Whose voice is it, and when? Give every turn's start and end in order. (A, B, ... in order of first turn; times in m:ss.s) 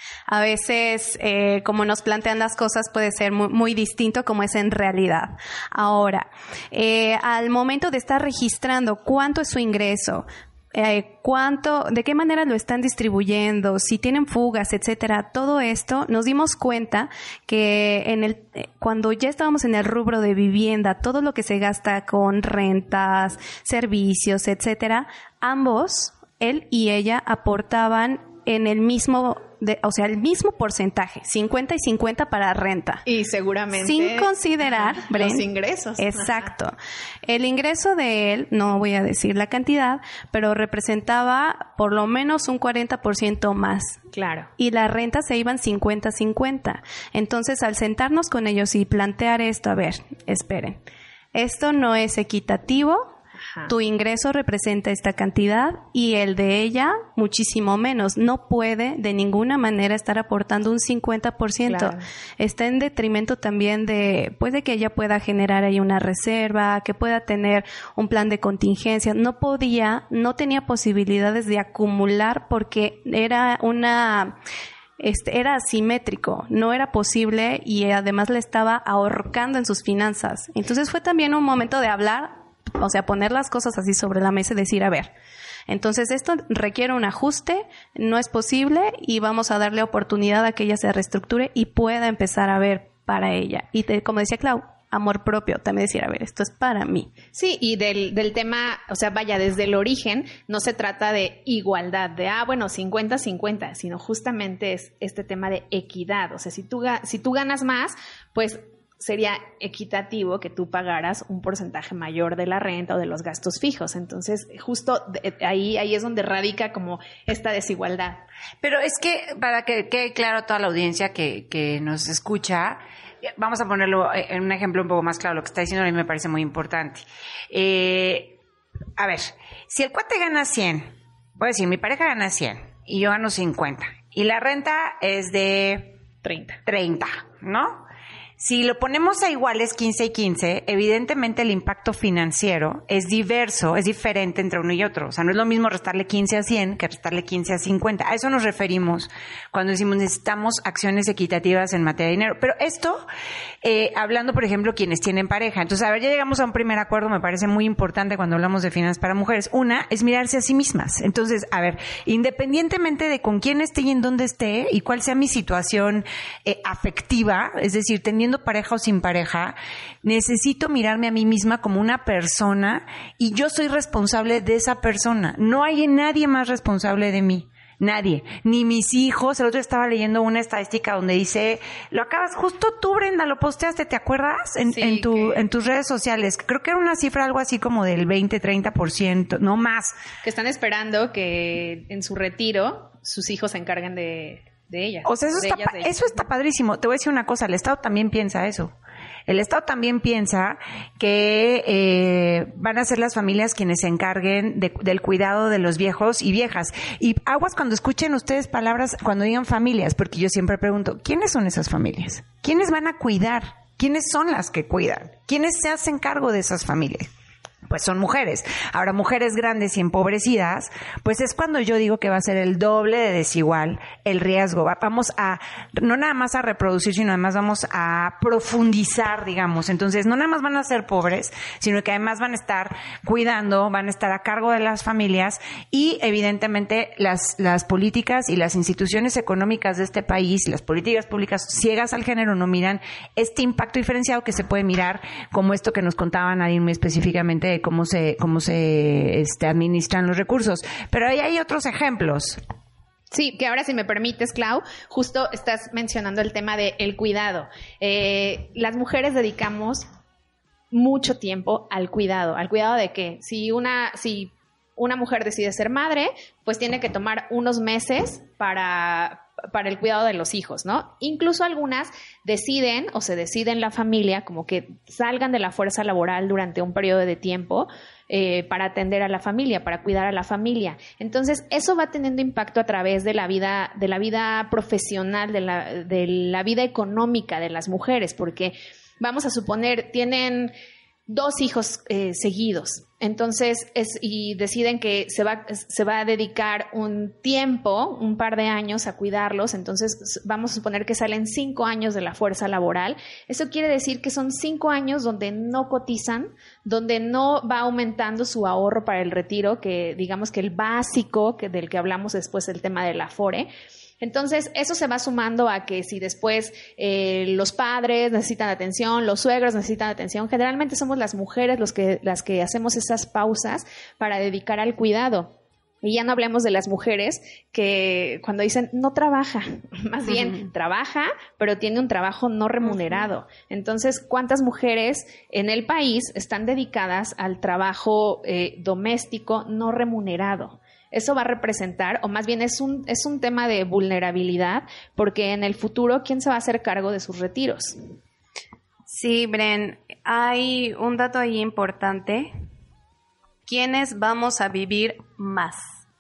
0:00.3-0:33.0 A
0:33.1-0:36.5 B
0:33.8-0:35.4 A
0:36.0-0:44.0 A
0:44.1-0:44.5 B
0:44.6-0:50.8 A
0:51.4-0:53.2 A
0:53.7-1:14.4 A
1:01.7-1:02.0 B
1:15.0-1:25.1 A
1:25.7-1:37.1 A
1:37.3-1:58.2 B
1:58.6-2:08.4 C
2:09.0-2:16.0 C
2:16.2-2:16.6 B
2:16.6-2:17.8 C
2:18.4-2:33.0 C
2:33.6-3:10.0 C
3:04.7-3:05.4 B
3:10.2-3:16.2 B
3:15.0-3:18.7 C
3:19.3-3:37.1 C
3:37.7-4:12.4 C
4:13.1-4:19.8 B
4:20.7-4:50.5 B
4:51.1-5:13.5 B
5:14.0-5:47.8 B
5:48.9-5:52.3 A
5:53.5-5:55.8 A